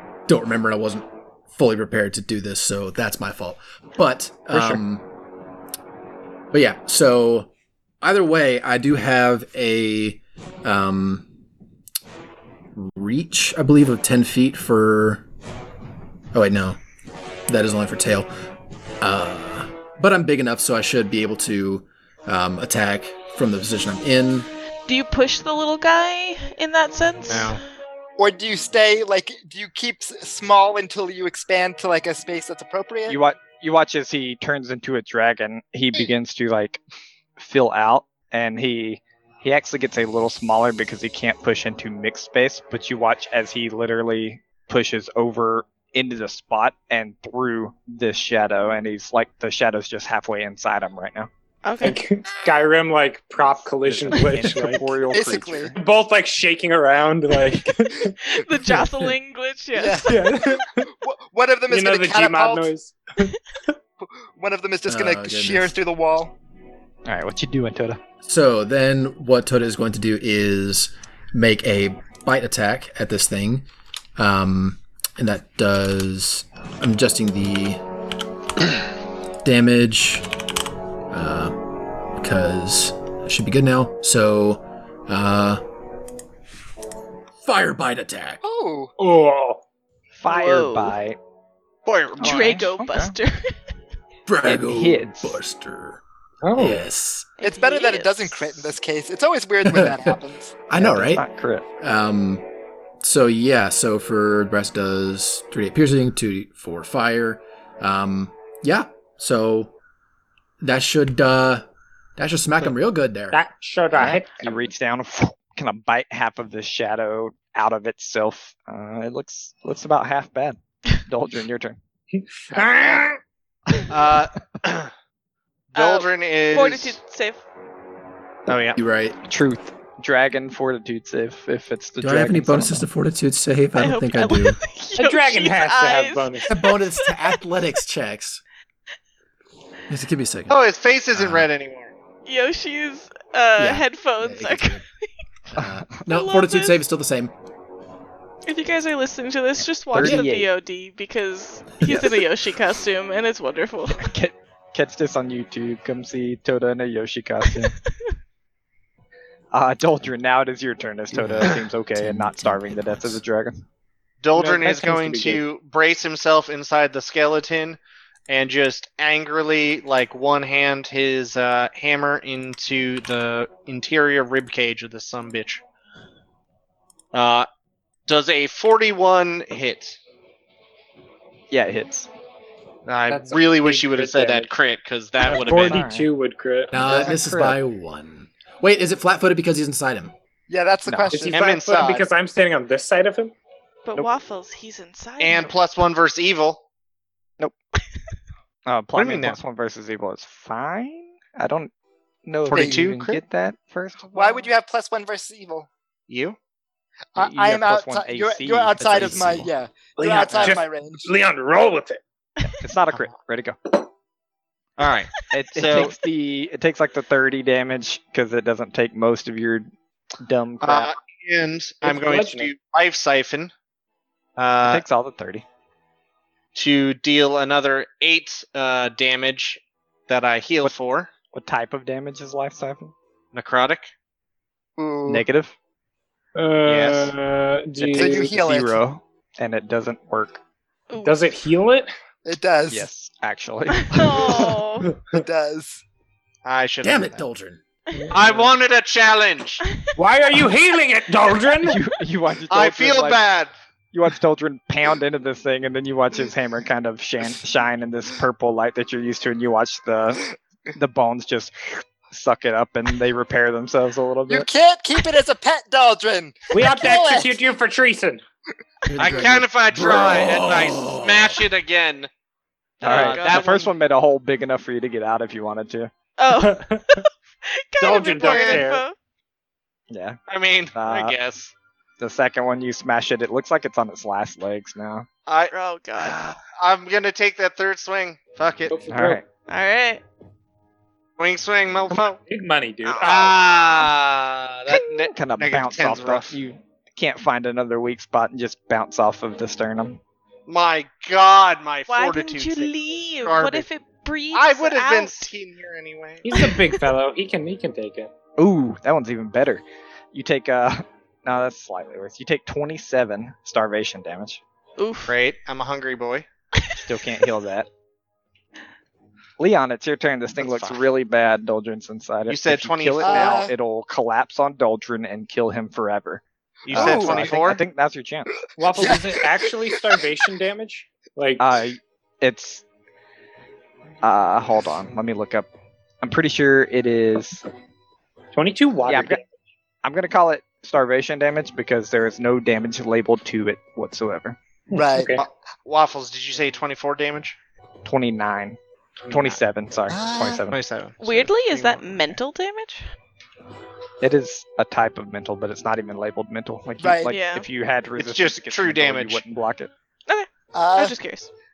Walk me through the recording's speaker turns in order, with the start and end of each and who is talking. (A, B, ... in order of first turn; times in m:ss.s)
0:00.3-0:05.0 A
0:04.5-0:04.8 B
0:06.5-0:07.5 A
0:08.0-0:11.3 A
0:12.7-0:15.2 A
0:16.3-0:16.8 A
0:17.5-0:18.3 A
0:19.0-0:24.5 A
0:24.9-0:27.6 C
0:27.3-0:27.6 D
0:28.2-0:33.2 E
0:33.1-0:36.8 B
0:37.4-0:51.3 B
0:51.6-0:52.0 C
0:51.8-0:54.9 F
0:53.8-0:55.8 B
0:55.1-0:55.7 E
0:55.8-0:59.2 F
0:58.2-1:00.4 C
0:59.7-1:00.5 E
1:00.0-1:00.9 F
1:01.0-1:02.7 E
1:01.7-1:03.3 F
1:04.0-1:06.3 E
1:04.9-1:05.8 A
1:07.0-1:08.0 B
1:08.2-1:13.6 A
1:14.2-1:17.8 A
1:19.4-1:20.3 A
1:21.1-1:21.6 A
1:22.1-1:25.6 A
1:27.4-1:28.4 A
1:28.4-1:28.9 E
1:29.0-1:29.6 F
1:30.2-1:31.2 B
1:30.3-1:31.0 C
1:31.8-1:32.6 D
1:32.2-1:33.5 C
1:32.2-1:33.2 B
1:34.2-1:36.0 A
1:34.4-1:35.4 B
1:36.4-1:36.8 F
1:36.5-1:37.3 A
1:37.4-1:38.7 C
1:37.4-1:40.5 E
1:39.6-1:40.2 A
1:40.7-1:41.2 A
1:40.7-1:41.6 B
1:41.8-1:42.4 A
1:43.0-1:49.7 A
1:50.6-1:51.6 A
1:52.2-1:54.2 A
1:53.3-1:54.5 F
1:54.4-2:01.8 B
2:02.1-2:03.2 F
2:03.9-2:04.9 D
2:05.7-2:07.0 D
2:05.7-2:07.4 C
2:08.5-2:08.8 D
2:08.8-2:09.2 A
2:09.3-2:12.8 B
2:12.0-2:14.6 A
2:13.8-2:17.4 C
2:15.0-2:16.5 F
2:16.5-2:18.4 A
2:19.9-2:20.6 A
2:20.5-2:21.9 D
2:21.1-2:21.5 A
2:22.2-2:24.8 C
2:23.6-2:24.8 A
2:25.5-2:27.3 A
2:25.6-2:25.8 B
2:26.0-2:26.8 C
2:28.5-2:34.1 C
2:29.9-2:30.5 B
2:30.0-2:30.2 A
2:31.8-2:32.1 B
2:34.0-2:37.7 B
2:39.5-2:43.6 B
2:41.1-2:43.2 A
2:44.2-2:55.6 D
2:44.4-2:45.4 F
2:57.1-2:57.5 D
2:58.1-3:00.0 D
3:01.5-3:02.1 B
3:02.9-3:05.8 D
3:03.1-3:04.5 F
3:05.2-3:07.6 F
3:05.3-3:06.1 B
3:06.7-3:10.1 A
3:10.5-3:11.4 E
3:10.8-3:11.2 B
3:11.1-3:13.3 F
3:11.3-3:12.0 D
3:13.8-3:15.5 C
3:15.2-3:16.6 D
3:18.6-3:21.7 B
3:19.0-3:19.4 D
3:22.2-3:24.4 B
3:22.5-3:23.2 D
3:22.5-3:22.8 E
3:24.1-3:25.7 E
3:26.1-3:26.4 D
3:27.2-3:31.1 E
3:27.2-3:29.5 B
3:30.0-3:32.0 F
3:32.6-3:33.8 B
3:34.8-3:35.9 D
3:35.3-3:39.7 B
3:40.2-3:40.9 B
3:40.6-3:43.5 D
3:41.8-3:42.5 F
3:44.4-3:44.8 D
3:44.6-3:45.4 B
3:46.5-3:51.1 D
3:51.3-3:52.9 B
3:53.3-3:53.9 D
3:54.8-3:55.2 E
3:55.0-3:55.5 B
3:56.3-3:58.3 F
3:56.6-3:57.1 D
3:57.7-4:00.4 B
3:58.0-3:58.8 E
4:00.9-4:01.2 C
4:01.0-4:01.9 F
4:02.2-4:02.9 E
4:02.7-4:04.6 B
4:03.8-4:04.9 C
4:04.9-4:05.2 F
4:05.1-4:05.8 E
4:06.4-4:07.2 D
4:06.8-4:07.6 A
4:08.1-4:09.6 D
4:10.0-4:11.8 F
4:11.6-4:13.2 B
4:12.5-4:13.5 D
4:13.9-4:24.5 B
4:24.3-4:27.4 E
4:26.5-4:28.2 F
4:28.9-4:31.5 A
4:29.0-4:32.1 D
4:32.8-4:35.9 B
4:32.8-4:33.7 D
4:32.8-4:33.6 C
4:36.2-4:38.9 C
4:36.3-4:37.0 F
4:37.8-4:38.8 F
4:38.2-4:38.7 D
4:39.9-4:40.2 B
4:40.3-4:41.5 D
4:40.7-4:41.2 B
4:42.0-4:45.1 B
4:45.3-4:48.8 D
4:45.5-4:46.3 C
4:48.7-4:49.2 F
4:48.9-4:49.2 B
4:49.5-4:50.0 C
4:51.2-4:52.2 D
4:51.9-4:53.6 F
4:52.8-4:53.3 C
4:53.0-4:56.3 D
4:54.7-5:00.0 B
5:00.5-5:03.7 D
5:01.9-5:05.3 C
5:04.3-5:06.5 D
5:06.2-5:08.1 F
5:06.4-5:06.7 C
5:08.4-5:14.4 B
5:14.8-5:15.1 C
5:15.1-5:16.2 D
5:16.8-5:17.7 B
5:19.4-5:28.3 B
5:20.4-5:20.9 D
5:22.3-5:23.5 D
5:23.0-5:23.5 E
5:26.6-5:27.6 D
5:26.7-5:27.3 E
5:28.6-5:31.5 F
5:28.7-5:30.0 E
5:31.4-5:32.6 B
5:34.0-5:35.5 B
5:36.0-5:37.4 B
5:38.3-5:39.3 F
5:38.9-5:39.2 B
5:39.8-5:44.4 B
5:44.7-5:45.2 F
5:44.7-5:45.1 E
5:45.2-5:47.4 D
5:47.8-5:48.6 B
5:49.0-5:49.4 D
5:49.1-5:50.6 B
5:49.9-5:50.4 E
5:50.5-5:51.8 D
5:51.0-5:52.8 C
5:54.0-5:59.7 B
5:56.8-5:57.1 E
5:57.1-5:57.5 C
5:58.0-5:59.2 D
6:00.1-6:01.3 C
6:00.5-6:01.0 E